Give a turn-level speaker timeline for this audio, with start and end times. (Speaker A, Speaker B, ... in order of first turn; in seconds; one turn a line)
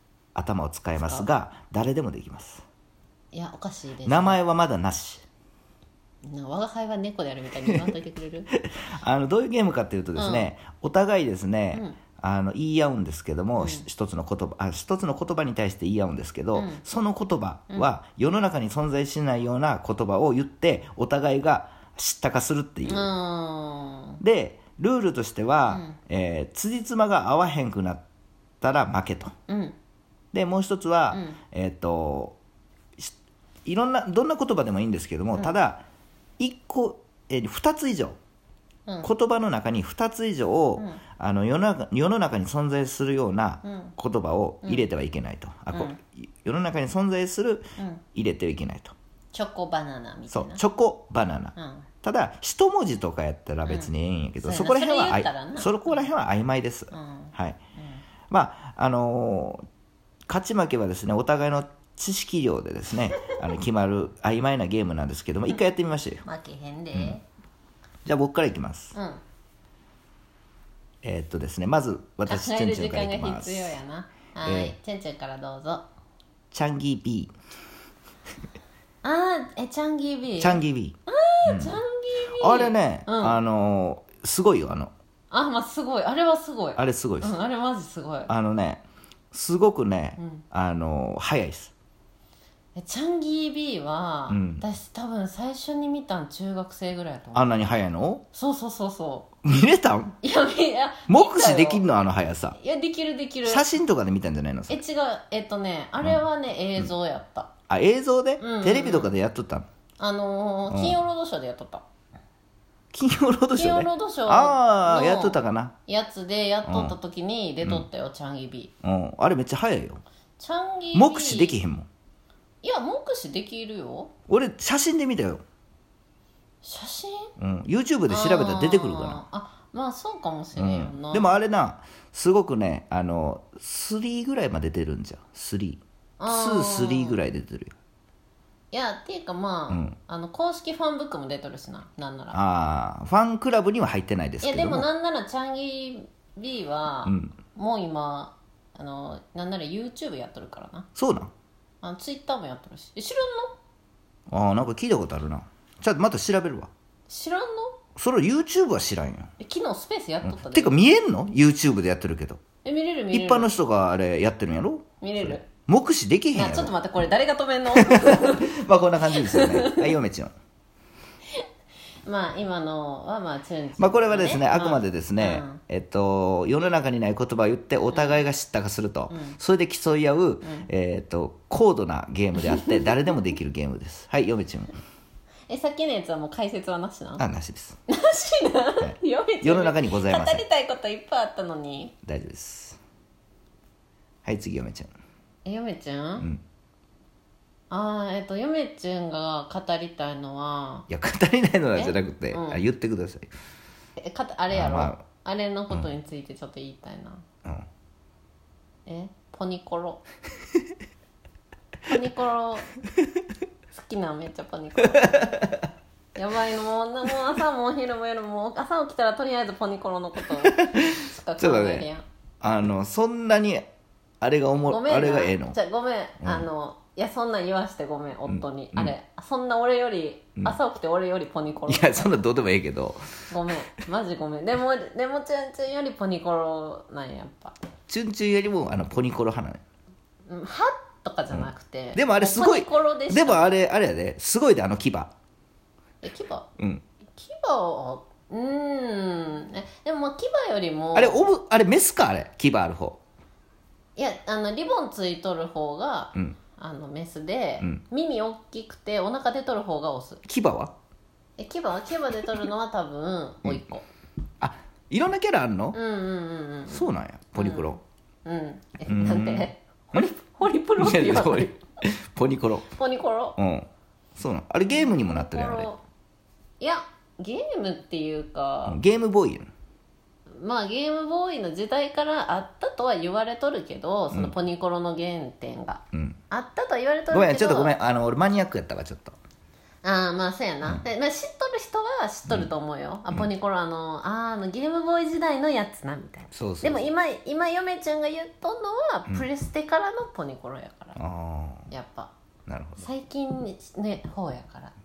Speaker A: 0.3-2.6
Speaker B: 1.0-1.3
Speaker B: 3.3-4.4
Speaker A: 4.0-5.2
Speaker B: 6.2-8.5
Speaker A: 7.7-7.9
Speaker A: 8.5-23.1
Speaker B: 10.2-10.5
Speaker B: 11.7-12.0
Speaker B: 13.6-13.9
Speaker B: 16.6-16.8
Speaker B: 22.9-24.2
Speaker A: 24.2-28.0
Speaker B: 25.7-26.0
Speaker A: 28.6-29.3
Speaker B: 29.5-29.8
Speaker A: 30.3-32.4
Speaker B: 31.1-31.4
Speaker A: 33.6-35.9
Speaker A: 36.4-38.2
Speaker A: 39.0-48.9
Speaker B: 40.8-41.0
Speaker B: 43.6-44.0
Speaker B: 45.7-46.0
Speaker B: 47.8-48.0
Speaker B: 49.3-50.6
Speaker A: 50.3-57.6
Speaker B: 51.6-51.9
Speaker B: 53.6-53.9
Speaker B: 54.4-55.9
Speaker B: 56.9-58.0
Speaker A: 58.3-59.6
Speaker A: 60.3-66.2
Speaker B: 66.3-67.2
Speaker A: 68.0-69.0
Speaker B: 69.0-69.2
Speaker A: 71.0-73.8
Speaker B: 72.3-75.8
Speaker A: 74.5-74.7
Speaker A: 76.5-77.3
Speaker B: 79.0-83.4
Speaker A: 80.4-81.8
Speaker A: 82.4-84.9
Speaker B: 85.3-88.3
Speaker A: 86.8-87.3
Speaker A: 88.3-91.7
Speaker B: 90.2-90.4
Speaker B: 92.8-97.7
Speaker A: 94.3-94.7
Speaker A: 97.3-98.2
Speaker B: 98.3-99.3
Speaker A: 99.4-100.2
Speaker B: 100.2-101.9
Speaker A: 101.1-102.6
Speaker B: 102.6-103.7
Speaker A: 103.5-104.8
Speaker B: 104.7-107.5
Speaker A: 107.7-109.7
Speaker B: 108.4-109.2
Speaker B: 110.0-111.8
Speaker A: 110.7-111.0
Speaker A: 112.9-115.8
Speaker B: 113.5-118.7
Speaker A: 116.7-117.0
Speaker A: 118.8-120.0
Speaker B: 120.4-121.6
Speaker A: 120.9-121.9
Speaker B: 122.6-124.1
Speaker A: 124.3-125.4
Speaker B: 126.6-127.3
Speaker A: 127.4-129.2
Speaker B: 128.1-131.4
Speaker A: 130.6-137.8
Speaker B: 136.2-137.2
Speaker B: 138.7-142.4
Speaker A: 139.7-140.0
Speaker A: 142.3-144.9
Speaker B: 144.4-150.9
Speaker A: 147.1-147.4
Speaker A: 151.0-151.3
Speaker B: 151.8-153.6
Speaker A: 154.3-156.7
Speaker B: 157.1-157.8
Speaker A: 158.0-159.3
Speaker B: 159.4-160.8
Speaker A: 160.2-162.4
Speaker B: 162.6-163.5
Speaker A: 163.1-166.7
Speaker B: 165.0-165.5
Speaker B: 166.3-168.6
Speaker A: 167.8-170.3
Speaker B: 169.1-169.9
Speaker B: 172.0-175.6
Speaker A: 173.8-184.7
Speaker B: 177.9-178.2
Speaker B: 179.1-179.4
Speaker B: 180.4-180.7
Speaker B: 182.4-182.9
Speaker B: 185.5-187.2
Speaker A: 187.2-187.8
Speaker B: 187.9-191.9
Speaker A: 188.8-190.4
Speaker A: 192.1-192.8
Speaker A: 194.2-194.9
Speaker B: 195.4-196.3
Speaker B: 197.7-200.9
Speaker A: 200.9-203.3
Speaker B: 201.8-202.6
Speaker B: 204.0-207.2
Speaker A: 204.5-205.0
Speaker B: 208.9-210.0
Speaker B: 211.9-212.8
Speaker B: 213.7-215.5
Speaker A: 214.8-215.7
Speaker B: 216.2-222.0
Speaker A: 220.4-221.9
Speaker A: 222.4-223.7
Speaker A: 224.2-225.6
Speaker B: 224.7-232.2
Speaker A: 226.2-226.5
Speaker A: 228.3-228.9
Speaker A: 231.7-233.3
Speaker B: 233.3-237.6
Speaker A: 237.9-239.6
Speaker B: 240.3-243.5
Speaker A: 241.3-245.1
Speaker B: 246.0-246.5
Speaker A: 246.6-246.8
Speaker B: 247.1-251.3
Speaker A: 250.9-253.0
Speaker B: 254.0-260.2
Speaker A: 260.3-260.7
Speaker B: 261.4-263.9
Speaker A: 264.4-265.8
Speaker B: 265.7-267.7
Speaker A: 266.7-267.8
Speaker B: 268.2-271.6
Speaker A: 268.9-270.1
Speaker A: 270.8-272.7
Speaker B: 272.8-273.4
Speaker A: 273.4-275.7
Speaker B: 274.7-275.8
Speaker B: 276.6-278.8
Speaker A: 278.7-279.5
Speaker B: 280.3-287.7
Speaker A: 285.9-286.2
Speaker A: 287.1-289.2
Speaker B: 289.8-301.0
Speaker A: 296.3-296.9
Speaker A: 301.0-301.7
Speaker B: 301.7-302.1
Speaker A: 302.5-302.9
Speaker B: 302.8-304.7